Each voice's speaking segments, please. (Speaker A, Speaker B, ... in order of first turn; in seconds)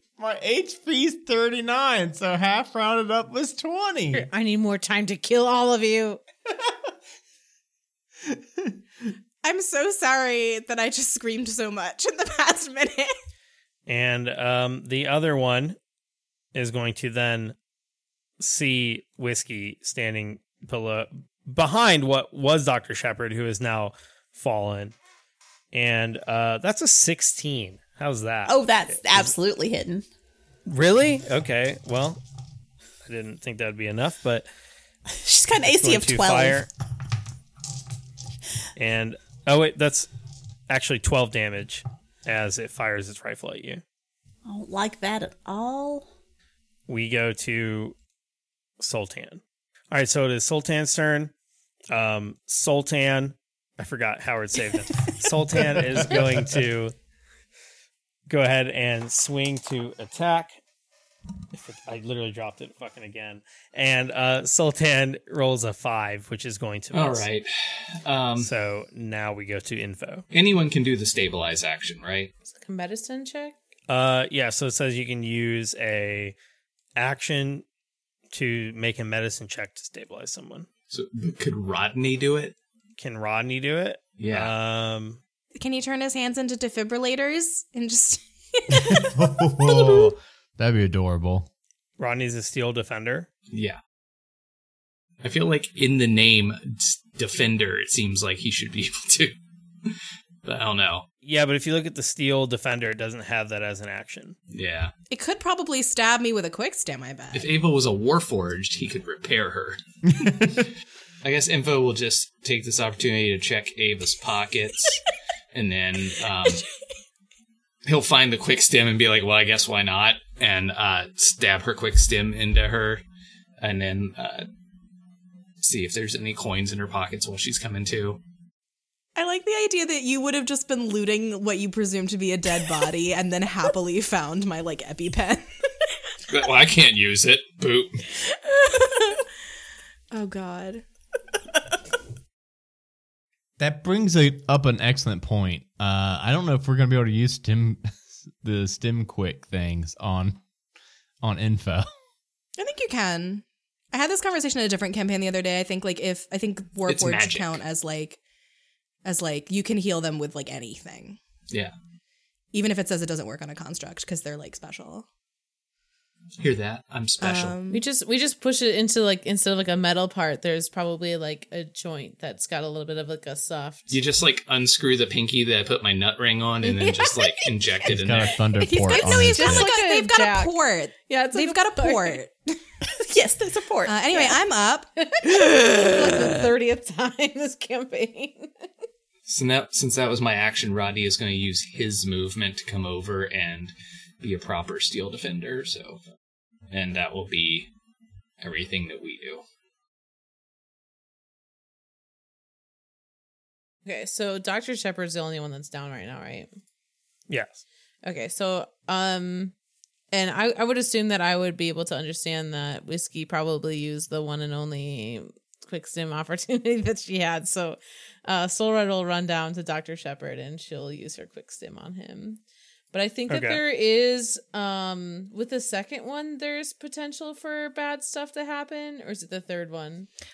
Speaker A: 0.2-4.3, 88.7-91.5, 143.6-150.4, 151.2-151.8, 177.8-179.7
Speaker B: 4.1-6.2, 72.5-73.5, 167.7-174.0, 176.6-177.5, 178.8-182.2, 185.0-188.7, 203.8-206.5, 208.0-209.5, 210.1-222.4, 222.9-230.1
Speaker C: 9.4-13.1, 85.5-90.0, 105.1-107.5, 129.1-135.5, 138.2-139.3, 140.1-140.8, 152.6-158.2, 159.0-161.2, 162.5-165.1, 167.2-167.8, 178.6-182.6, 183.8-184.9
Speaker D: 13.9-15.8, 16.5-17.5, 18.4-24.9, 25.7-29.3, 30.7-32.2, 33.0-34.5, 35.6-36.7, 38.8-40.1, 40.7-43.8, 46.9-48.0, 48.8-51.3, 51.9-56.9, 58.3-60.5, 61.5-67.3, 68.4-70.2, 73.9-76.3, 77.0-77.6, 78.3-80.7, 83.0-85.2, 92.0-93.3, 101.2-104.4, 207.3-207.6, 223.3-223.6
Speaker E: 28.5-30.0, 35.1-36.6, 44.4-46.1, 182.9-184.4
Speaker F: 66.9-68.5, 70.3-72.3, 80.9-82.5, 84.2-84.5, 93.5-93.8, 95.2-99.3, 100.4-101.1, 104.5-104.9, 107.3-110.7, 111.2-116.6, 117.8-123.0, 123.6-124.5, 125.6-128.2, 136.3-138.0, 156.8-157.6, 166.4-167.6, 173.9-178.4, 189.3-196.0, 196.7-197.7, 198.4-199.4